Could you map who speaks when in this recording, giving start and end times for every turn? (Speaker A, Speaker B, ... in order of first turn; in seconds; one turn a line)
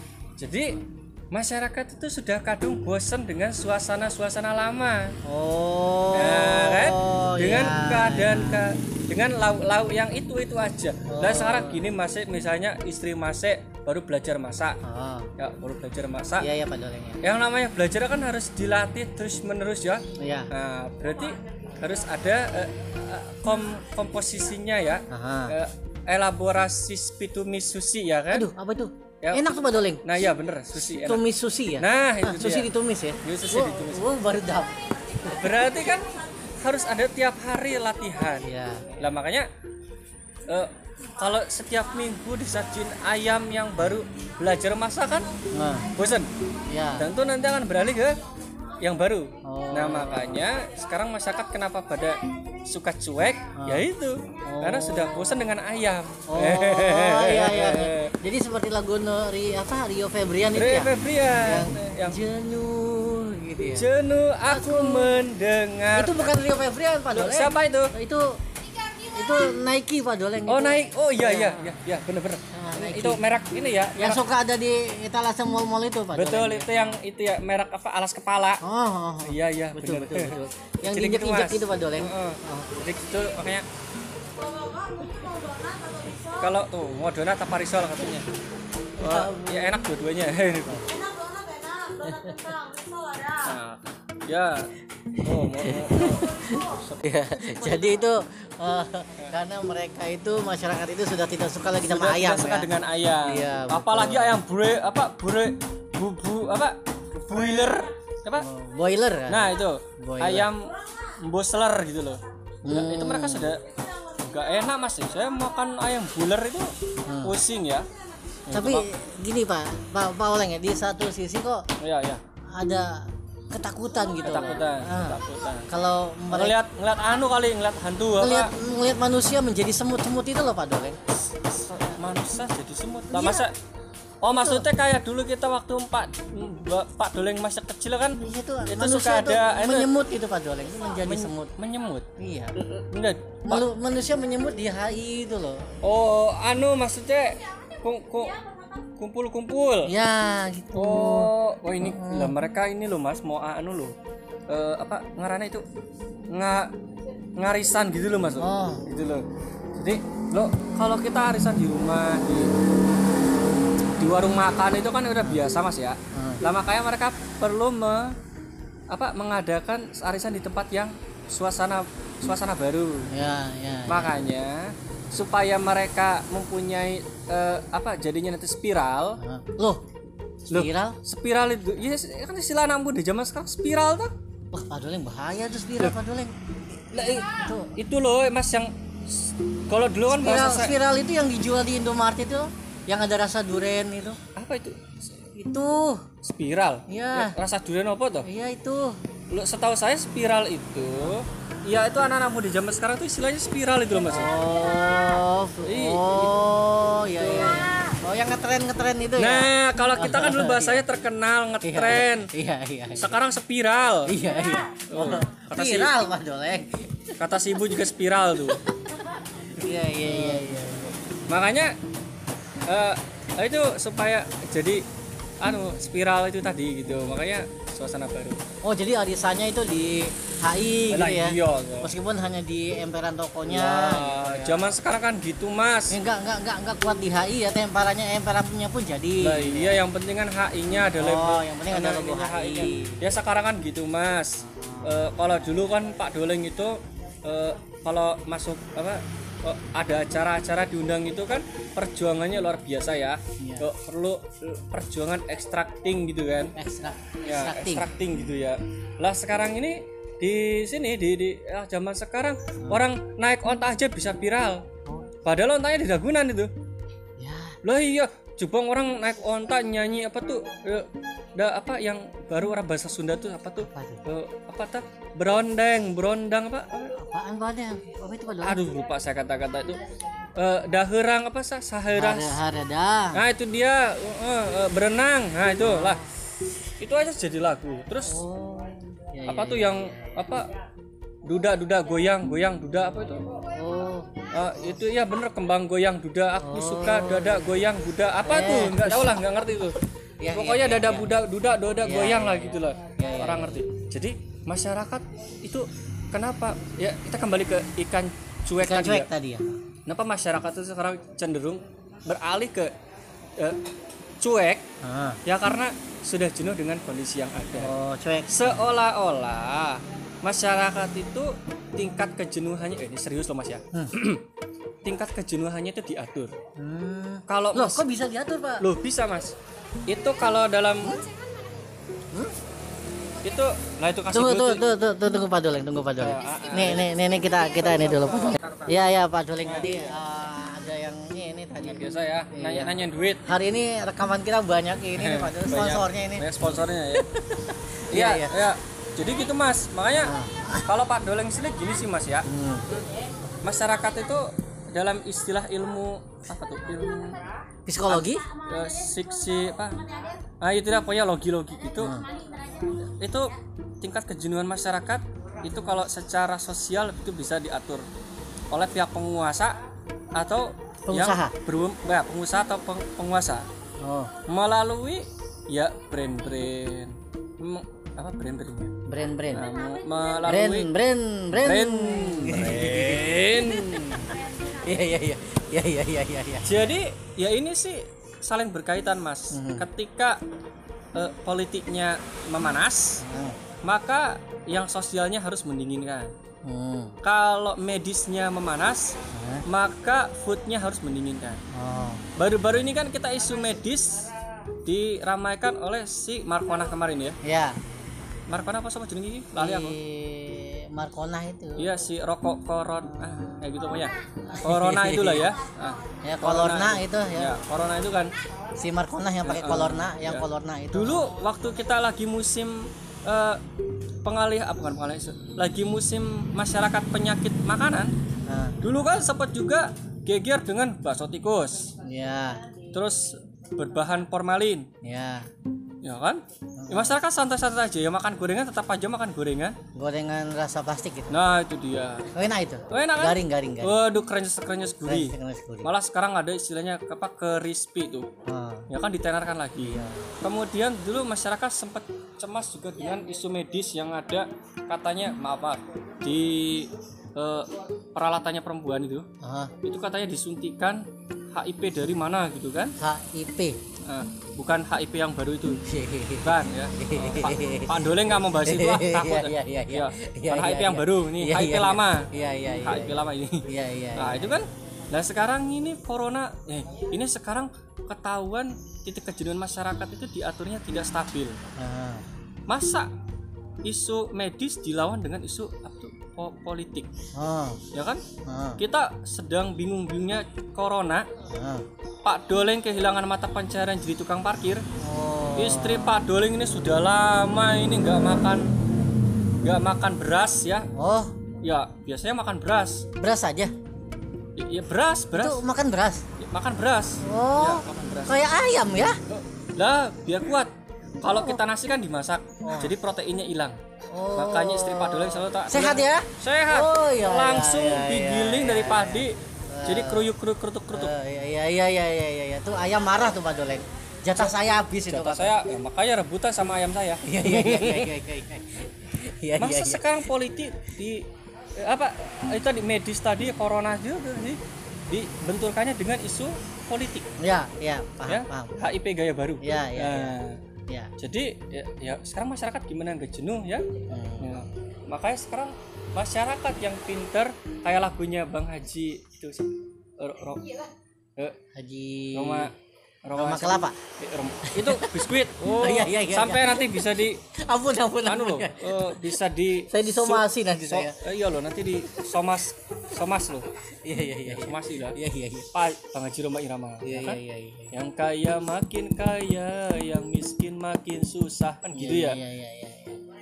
Speaker A: 0.4-5.1
Speaker B: 5.2-8.6
Speaker A: 6.1-14.8
Speaker B: 11.1-11.9
Speaker B: 14.8-15.3
Speaker A: 15.4-16.5
Speaker B: 16.4-17.2
Speaker A: 17.2-28.5
Speaker B: 20.2-20.5
Speaker B: 25.1-25.5
Speaker B: 28.3-30.1
Speaker A: 29.2-29.5
Speaker A: 30.0-31.2
Speaker B: 30.7-35.7
Speaker A: 31.8-32.7
Speaker A: 33.2-34.1
Speaker A: 35.3-39.5
Speaker B: 38.4-39.0
Speaker A: 40.5-45.3
Speaker B: 45.5-45.9
Speaker A: 45.9-46.3
Speaker B: 46.7-47.1
Speaker A: 47.0-48.2
Speaker A: 48.8-58.1
Speaker B: 49.4-50.4
Speaker B: 53.6-53.9
Speaker B: 54.5-55.5
Speaker B: 56.3-63.9
Speaker A: 60.5-62.2
Speaker A: 63.7-66.3
Speaker B: 64.5-65.2
Speaker B: 65.9-68.4
Speaker A: 67.1-67.9
Speaker B: 69.0-71.8
Speaker A: 70.5-74.2
Speaker B: 72.5-73.2
Speaker B: 74.0-77.0
Speaker A: 76.1-78.6
Speaker B: 78.6-82.8
Speaker A: 79.2-83.7
Speaker A: 86.3-88.2
Speaker B: 89.0-89.8
Speaker A: 89.0-91.0
Speaker B: 91.9-92.7
Speaker A: 93.3-97.9
Speaker B: 95.2-104.4
Speaker A: 101.8-108.5
Speaker B: 107.3-107.8
Speaker B: 108.4-110.5
Speaker A: 109.3-113.6
Speaker B: 112.6-113.5
Speaker A: 114.1-117.9
Speaker B: 117.0-117.4
Speaker A: 118.5-118.9
Speaker B: 118.5-121.6
Speaker A: 121.8-122.2
Speaker B: 122.5-126.6
Speaker A: 124.2-125.7
Speaker A: 126.3-128.5
Speaker B: 128.2-131.0
Speaker A: 131.4-133.5
Speaker B: 133.1-133.5
Speaker A: 134.2-139.9
Speaker B: 134.2-134.7
Speaker B: 138.2-141.5
Speaker A: 141.0-143.7
Speaker B: 142.2-142.5
Speaker B: 143.4-145.6
Speaker A: 145.8-148.4
Speaker A: 149.0-149.9
Speaker B: 149.8-152.3
Speaker A: 150.7-153.9
Speaker A: 154.5-155.6
Speaker A: 156.3-156.7
Speaker A: 157.3-162.5
Speaker B: 158.4-158.8
Speaker A: 164.0-168.2
Speaker B: 166.1-166.4
Speaker A: 168.9-173.1
Speaker B: 173.1-174.2
Speaker A: 173.9-179.2
Speaker B: 179.2-179.8
Speaker A: 180.5-184.1
Speaker B: 180.5-181.0
Speaker B: 184.5-186.3
Speaker A: 186.9-190.7
Speaker B: 187.3-187.7
Speaker B: 190.1-194.2
Speaker A: 194.3-195.1
Speaker B: 195.3-196.0
Speaker A: 196.2-198.3
Speaker B: 196.9-197.4
Speaker B: 198.2-199.0
Speaker A: 199.3-204.3
Speaker B: 204.0-210.8
Speaker A: 205.6-206.3
Speaker A: 207.2-207.7
Speaker A: 209.2-212.3
Speaker B: 211.6-213.1
Speaker A: 212.9-214.2
Speaker B: 214.1-217.1
Speaker A: 214.9-215.9
Speaker A: 217.2-218.6
Speaker B: 219.5-221.0
Speaker A: 220.0-220.5
Speaker A: 221.3-221.8
Speaker A: 222.7-224.8
Speaker A: 225.4-228.4
Speaker B: 228.6-234.8
Speaker A: 230.9-231.9
Speaker A: 233.5-236.0
Speaker B: 235.9-239.8
Speaker A: 239.2-256.5
Speaker B: 240.9-243.1
Speaker B: 244.4-245.3
Speaker B: 253.4-253.7
Speaker B: 256.6-257.9
Speaker A: 257.2-264.6
Speaker B: 262.6-262.9
Speaker A: 265.2-266.5
Speaker B: 267.2-267.6
Speaker A: 267.6-277.0
Speaker B: 273.6-274.0
Speaker B: 276.9-278.6
Speaker A: 278.4-279.8
Speaker A: 280.4-282.4
Speaker B: 281.9-283.2
Speaker A: 283.1-286.0
Speaker B: 285.6-286.0
Speaker A: 286.8-288.2
Speaker B: 288.0-290.4
Speaker A: 289.3-290.5
Speaker A: 291.2-293.4
Speaker B: 293.5-294.1
Speaker A: 294.3-299.8
Speaker B: 296.4-297.6
Speaker B: 298.2-299.2
Speaker B: 300.2-301.2
Speaker A: 300.3-309.1
Speaker B: 301.8-303.6
Speaker B: 308.6-309.5
Speaker A: 309.9-312.7
Speaker A: 313.4-313.7
Speaker A: 314.2-314.7
Speaker B: 314.8-315.2
Speaker A: 315.2-317.7
Speaker B: 317.5-318.6
Speaker A: 318.3-324.2
Speaker A: 324.8-326.3
Speaker B: 326.6-328.6
Speaker A: 327.3-327.8
Speaker A: 328.6-329.4
Speaker A: 329.9-331.1
Speaker A: 333.2-334.6
Speaker B: 334.1-348.4
Speaker A: 336.0-336.9
Speaker A: 337.7-338.7
Speaker A: 339.4-339.9
Speaker A: 341.6-343.2
Speaker A: 345.0-347.1
Speaker A: 347.9-352.3
Speaker B: 349.9-350.6
Speaker B: 352.3-352.6
Speaker A: 353.4-357.2
Speaker B: 357.6-358.3
Speaker A: 357.9-359.8
Speaker A: 360.4-367.9
Speaker B: 361.8-362.0
Speaker A: 368.5-369.6
Speaker A: 370.1-373.4
Speaker B: 370.9-371.3
Speaker B: 373.8-374.1
Speaker A: 374.2-378.8
Speaker B: 378.9-379.5
Speaker A: 379.3-380.7
Speaker B: 380.2-386.7
Speaker A: 381.3-384.1
Speaker A: 386.4-390.2
Speaker B: 389.3-389.7
Speaker A: 390.9-393.0
Speaker B: 393.0-393.4
Speaker A: 393.6-396.1
Speaker B: 396.4-396.9
Speaker A: 397.0-401.4
Speaker B: 399.1-399.4
Speaker B: 401.5-402.0
Speaker A: 402.2-404.1
Speaker A: 404.6-407.2
Speaker B: 407.2-407.6
Speaker A: 408.3-409.8
Speaker B: 409.4-411.8
Speaker A: 411.6-418.1
Speaker B: 414.3-415.3
Speaker B: 416.0-417.4
Speaker B: 418.6-421.2
Speaker A: 419.2-423.4
Speaker A: 424.0-427.9
Speaker B: 428.3-428.6
Speaker A: 428.6-431.7
Speaker B: 431.8-432.4
Speaker A: 432.7-434.7
Speaker B: 434.8-435.2
Speaker A: 435.8-439.6
Speaker B: 436.6-437.0
Speaker B: 439.8-441.2
Speaker A: 441.1-442.1
Speaker B: 442.1-443.8
Speaker A: 442.7-448.1
Speaker B: 444.8-445.7
Speaker B: 448.2-448.7
Speaker A: 448.7-459.1
Speaker B: 449.6-450.1
Speaker B: 459.2-459.5
Speaker A: 459.6-462.8
Speaker B: 462.8-463.6
Speaker A: 463.9-465.6
Speaker B: 465.6-474.4
Speaker A: 466.2-481.4
Speaker B: 481.6-482.0
Speaker A: 482.5-482.9
Speaker A: 483.6-486.9
Speaker B: 487.1-487.6
Speaker A: 487.7-488.0
Speaker B: 488.3-488.6
Speaker A: 488.6-491.1
Speaker B: 491.3-491.6
Speaker A: 492.0-494.6
Speaker B: 494.8-496.0
Speaker A: 495.4-498.5
Speaker A: 499.4-500.7
Speaker B: 500.7-501.1
Speaker A: 501.4-502.9
Speaker B: 503.0-503.5
Speaker A: 504.4-505.4
Speaker B: 505.1-506.0
Speaker A: 506.2-508.2
Speaker B: 507.0-509.0
Speaker A: 509.1-513.6
Speaker B: 511.0-511.4
Speaker B: 512.4-512.8
Speaker B: 513.9-520.1
Speaker A: 514.1-520.9
Speaker B: 520.7-525.4
Speaker A: 524.9-527.9
Speaker B: 527.0-529.9
Speaker A: 529.4-531.1
Speaker A: 531.6-537.1
Speaker B: 537.2-538.6
Speaker A: 538.1-540.4
Speaker B: 539.4-540.2
Speaker A: 541.0-543.7
Speaker B: 543.9-544.3
Speaker A: 544.2-550.5
Speaker B: 551.5-552.5
Speaker A: 552.1-552.5
Speaker A: 553.0-557.2
Speaker B: 553.1-553.8
Speaker B: 554.5-561.0
Speaker A: 558.0-563.5
Speaker B: 563.8-565.5
Speaker A: 564.2-565.0
Speaker A: 565.5-567.2
Speaker B: 566.8-567.8
Speaker A: 567.7-572.2
Speaker B: 571.7-573.0